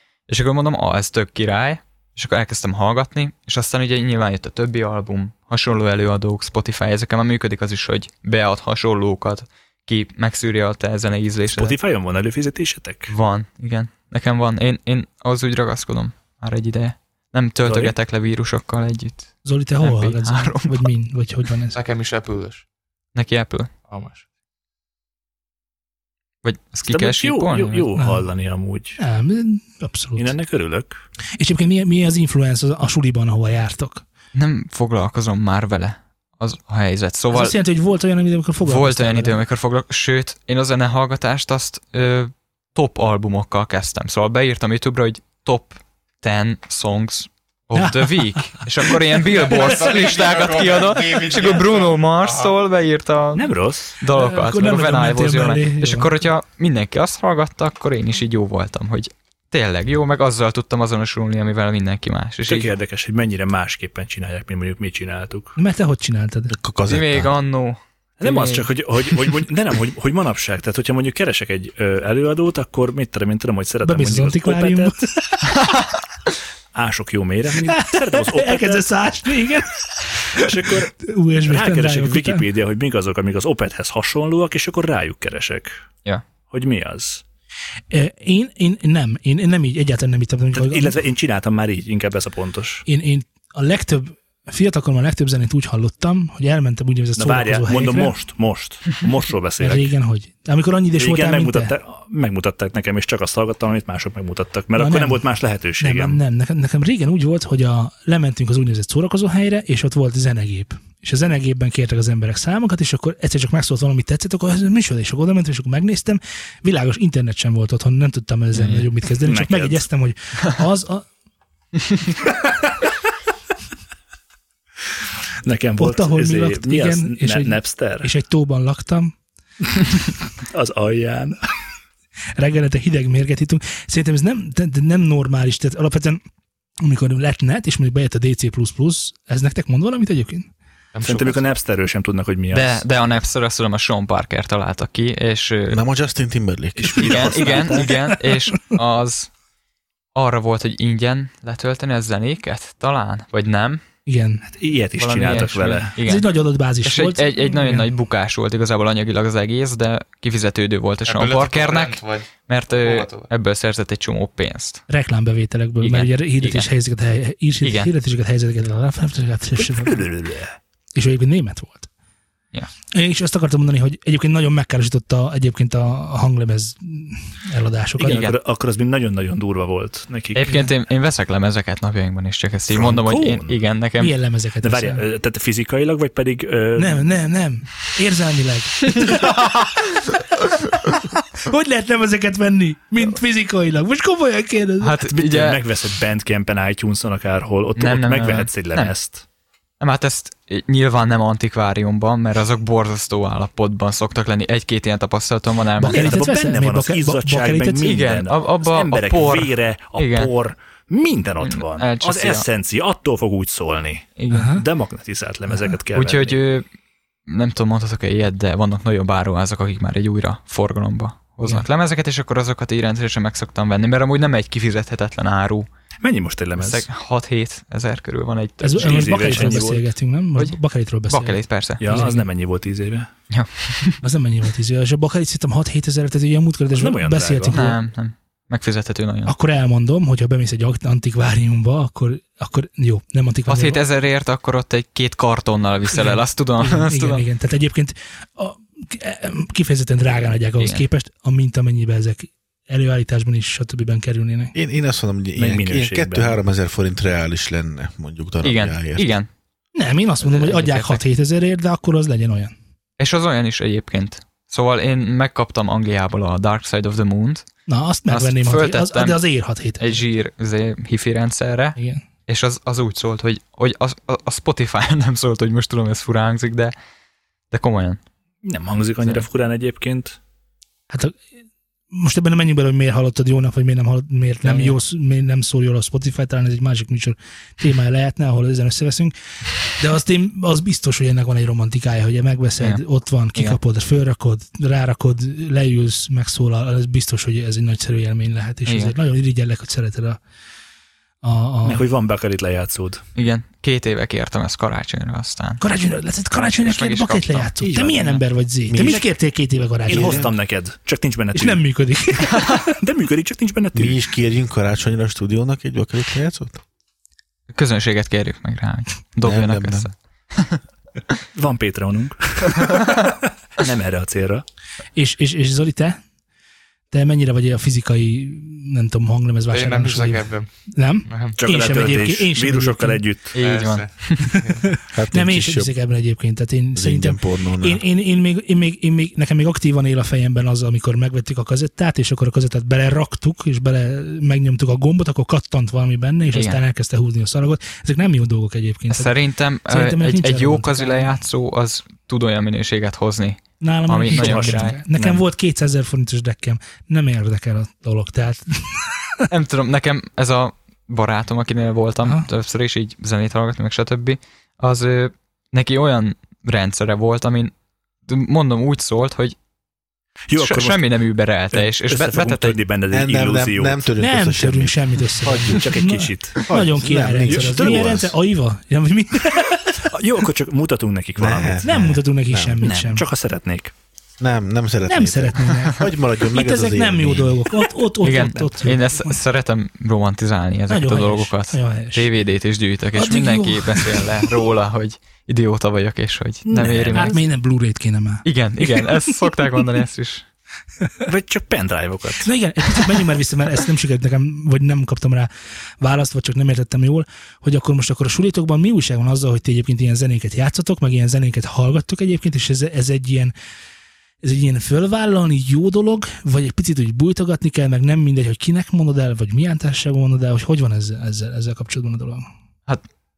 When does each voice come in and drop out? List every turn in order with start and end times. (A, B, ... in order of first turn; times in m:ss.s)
0:00.3-0:11.8 A
0:11.5-0:13.1 B
0:13.1-0:20.9 A
0:17.6-0:17.9 B
0:19.4-0:21.8 C
0:21.7-0:22.6 D
0:23.1-0:23.7 A
0:23.9-0:24.2 D
0:26.4-0:27.9 A
0:26.9-0:29.0 B
0:28.0-0:28.2 C
0:29.0-0:30.3 C
0:30.2-0:31.0 B
0:31.3-0:34.0 C
0:34.3-0:37.6 A
0:37.3-0:39.4 C
0:38.6-1:02.7 A
0:47.7-0:48.6 C
0:49.3-0:52.5 D
0:53.3-0:54.0 B
0:54.1-0:56.3 C
1:02.4-1:05.6 B
1:05.6-1:06.5 C
1:06.5-1:07.3 E
1:06.9-1:08.7 A
1:08.2-1:15.1 B
1:13.8-1:15.4 C
1:16.7-1:18.9 B
1:17.6-1:22.5 C
1:20.3-1:20.9 B
1:21.4-1:25.8 B
1:26.4-1:27.2 B
1:27.9-1:31.0 C
1:30.5-1:32.8 B
1:32.9-1:38.2 C
1:37.2-1:39.9 B
1:39.6-1:41.7 C
1:41.0-1:46.2 B
1:44.8-1:45.2 C
1:45.8-2:01.1 C
1:58.6-1:58.8 A
1:59.2-1:59.8 B
2:05.4-2:08.1 B
2:05.8-2:09.1 C
2:10.5-2:11.4 B
2:12.4-2:16.2 C
2:16.8-2:20.5 C
2:20.9-2:21.4 D
2:21.0-2:22.8 B
2:22.5-2:25.8 A
2:25.7-2:27.7 E
2:26.8-2:28.1 B
2:26.9-2:29.3 A
2:30.1-2:33.8 A
2:34.0-2:34.4 C
2:34.4-2:35.9 B
2:35.0-2:36.3 A
2:36.0-2:37.9 C
2:36.8-2:44.8 A
2:41.0-2:42.3 D
2:42.8-2:43.3 D
2:44.9-2:50.1 C
2:45.8-2:46.7 A
2:47.6-2:47.9 A
2:49.6-2:50.6 B
2:50.9-2:51.9 C
2:52.9-2:58.3 C
2:58.0-3:00.7 B
2:58.0-2:58.3 A
3:00.3-3:04.2 A
3:02.7-3:03.6 B
3:04.0-3:05.0 C
3:04.6-3:07.1 B
3:06.8-3:09.2 C
3:11.4-3:15.0 C
3:14.8-3:15.6 A
3:15.0-3:19.2 B
3:17.8-3:18.9 A
3:19.8-3:26.2 A
3:25.8-3:27.9 C
3:25.8-3:36.4 B
3:27.8-3:30.3 A
3:31.4-3:32.5 A
3:34.2-3:34.5 A
3:34.3-3:34.6 C
3:35.9-3:36.6 A
3:37.3-3:45.7 A
3:46.0-3:46.8 B
3:46.6-3:49.7 A
3:48.6-3:52.3 C
3:48.7-3:49.9 B
3:51.1-3:52.0 A
3:51.8-3:53.1 B
3:53.3-3:54.0 A
3:54.0-3:57.8 C
3:56.7-3:57.6 B
3:57.5-3:59.3 A
3:59.2-4:03.8 C
4:03.5-4:07.2 A
4:05.9-4:14.5 C
4:14.5-4:19.1 E
4:15.4-4:16.4 B
4:18.4-4:19.3 A
4:19.7-4:22.5 C
4:20.2-4:21.0 A
4:23.0-4:27.5 A
4:27.7-4:30.0 C
4:28.1-4:29.2 A
4:29.8-4:36.7 A
4:37.5-4:38.0 A
4:38.4-4:40.2 B
4:39.0-4:39.2 A
4:40.9-4:41.2 C
4:41.9-4:49.1 C
4:44.4-4:44.8 D
4:49.8-5:00.2 C
4:52.6-4:53.6 A
4:58.6-4:58.9 A
5:01.2-5:01.8 C
5:01.6-5:03.0 B
5:03.1-5:05.6 A
5:05.6-5:10.3 C
5:06.3-5:08.2 A
5:07.6-5:08.2 B
5:08.7-5:09.1 E
5:08.7-5:09.1 B
5:09.9-5:11.7 B
5:09.9-5:10.3 E
5:11.3-5:12.7 C
5:12.6-5:14.0 B
5:13.7-5:16.6 E
5:17.5-5:20.6 A
5:19.2-5:19.9 E
5:21.3-5:24.4 B
5:25.0-5:26.0 C
5:26.9-5:33.0 C
5:29.5-5:30.5 D
5:31.1-5:31.4 D
5:31.4-5:33.4 B
5:33.3-5:34.4 A
5:33.4-5:34.6 D
5:34.3-5:49.1 C
5:34.9-5:35.7 E
5:36.7-5:37.8 E
5:46.3-5:46.6 A
5:48.9-5:55.2 A
5:49.7-5:51.1 C
5:53.6-5:59.3 C
5:54.1-5:54.7 B
5:59.3-6:07.5 A
6:08.1-6:09.4 A
6:10.3-6:10.8 B
6:10.4-6:12.6 A
6:11.5-6:13.8 B
6:12.9-6:15.8 E
6:14.0-6:19.8 C
6:15.5-6:16.5 B
6:16.5-6:18.1 E
6:17.2-6:18.0 B
6:19.2-6:22.0 B
6:21.2-6:22.6 E
6:21.6-6:23.0 C
6:22.6-6:23.7 B
6:24.2-6:27.5 E
6:24.9-6:29.2 C
6:28.0-6:37.2 A
6:30.7-6:32.1 C
6:33.0-6:34.3 C
6:36.5-6:37.2 B
6:36.9-6:39.1 C
6:38.2-6:40.2 A
6:41.0-6:43.0 B
6:42.2-6:45.3 C
6:45.8-6:53.3 C
6:54.2-7:02.2 C